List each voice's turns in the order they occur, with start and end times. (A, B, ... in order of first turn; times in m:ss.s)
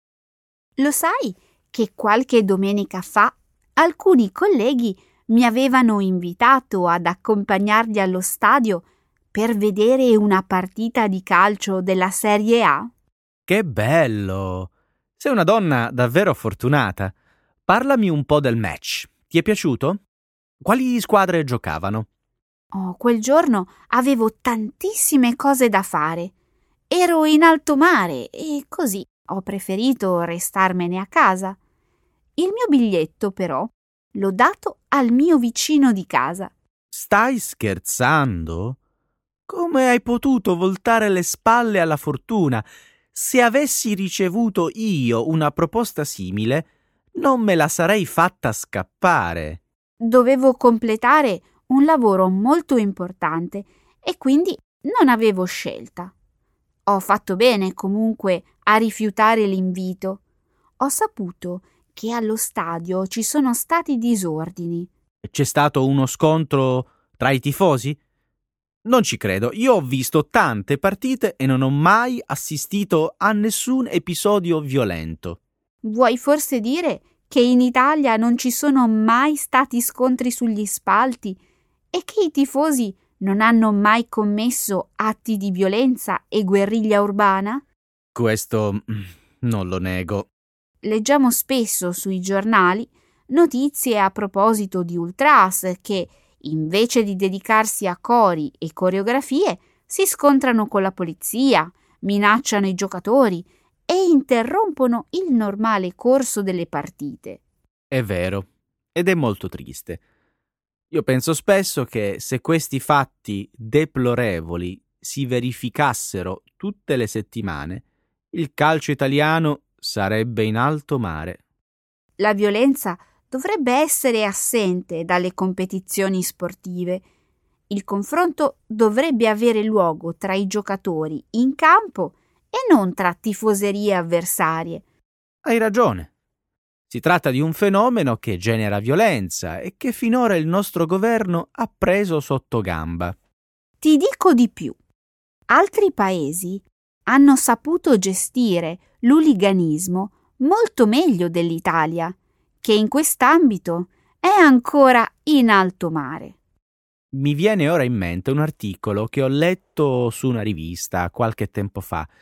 0:00.8-0:12.9 A
0:13.5-0:17.1 B
0:17.7-0:20.0 B
0:20.6-0:22.1 B
0:22.7-0:26.3 A
0:26.9-0:31.6 A
0:32.4-0:36.5 A
0:36.9-0:38.8 B
0:39.5-0:49.6 B
0:50.0-0:56.1 A
0:56.9-1:00.2 A
1:00.8-1:04.9 A
1:05.2-1:08.0 B
1:08.8-1:15.4 B
1:15.8-1:21.4 A
1:21.9-1:27.6 A
1:28.1-1:30.3 B
1:30.8-1:47.4 A
1:47.9-1:50.0 B
1:50.9-2:01.4 B
2:02.2-2:07.0 A
2:07.7-2:14.8 A
2:15.4-2:16.1 B
2:16.9-2:23.2 B
2:23.8-2:24.8 A
2:25.5-2:36.4 A
2:37.1-2:42.1 B